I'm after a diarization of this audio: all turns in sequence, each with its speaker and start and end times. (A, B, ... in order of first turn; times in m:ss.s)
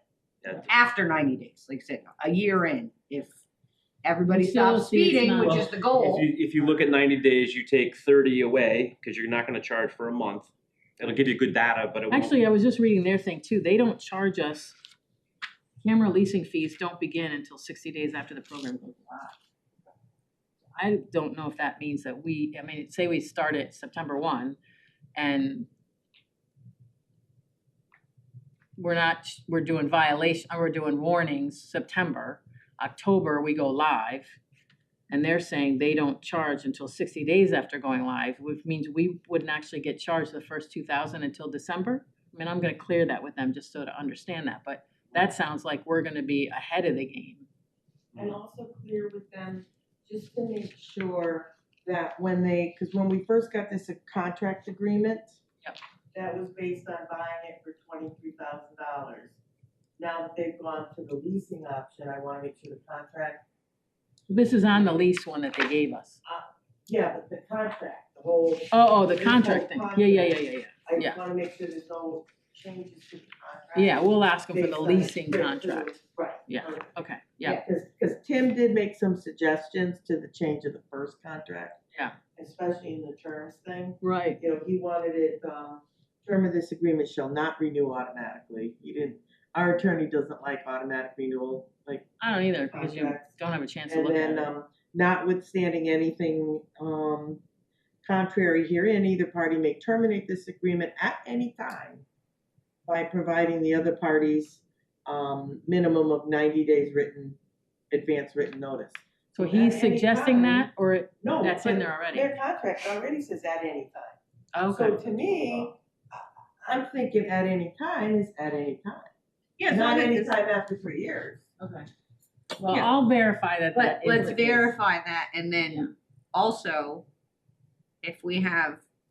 0:00.7-0:03.4 A
0:04.0-0:06.2 A
0:04.3-0:05.7 B
0:05.4-0:12.4 C
0:12.1-0:14.8 B
0:15.8-0:19.3 B
0:20.7-0:24.6 B
0:25.1-0:25.7 B
0:28.8-0:34.4 B
0:35.1-0:47.5 B
0:48.2-0:55.4 D
0:56.1-0:59.4 D
1:00.0-1:03.4 D
1:04.3-1:06.2 B
1:06.2-1:16.9 D
1:08.7-1:11.2 B
1:13.7-1:17.6 B
1:17.4-1:21.8 D
1:22.4-1:32.1 D
1:24.0-1:24.4 B
1:32.2-1:34.5 B
1:32.7-1:33.3 D
1:33.9-1:37.4 D
1:38.0-1:42.0 D
1:42.8-1:47.4 D
1:47.9-1:50.7 D
1:49.3-1:52.3 B
1:51.2-1:54.2 D
1:54.5-1:55.6 B
1:54.7-1:59.1 D
1:59.6-2:00.4 A
1:59.7-2:01.5 D
2:01.6-2:01.9 B
2:02.6-2:04.7 B
2:03.7-2:07.0 A
2:08.0-2:08.8 A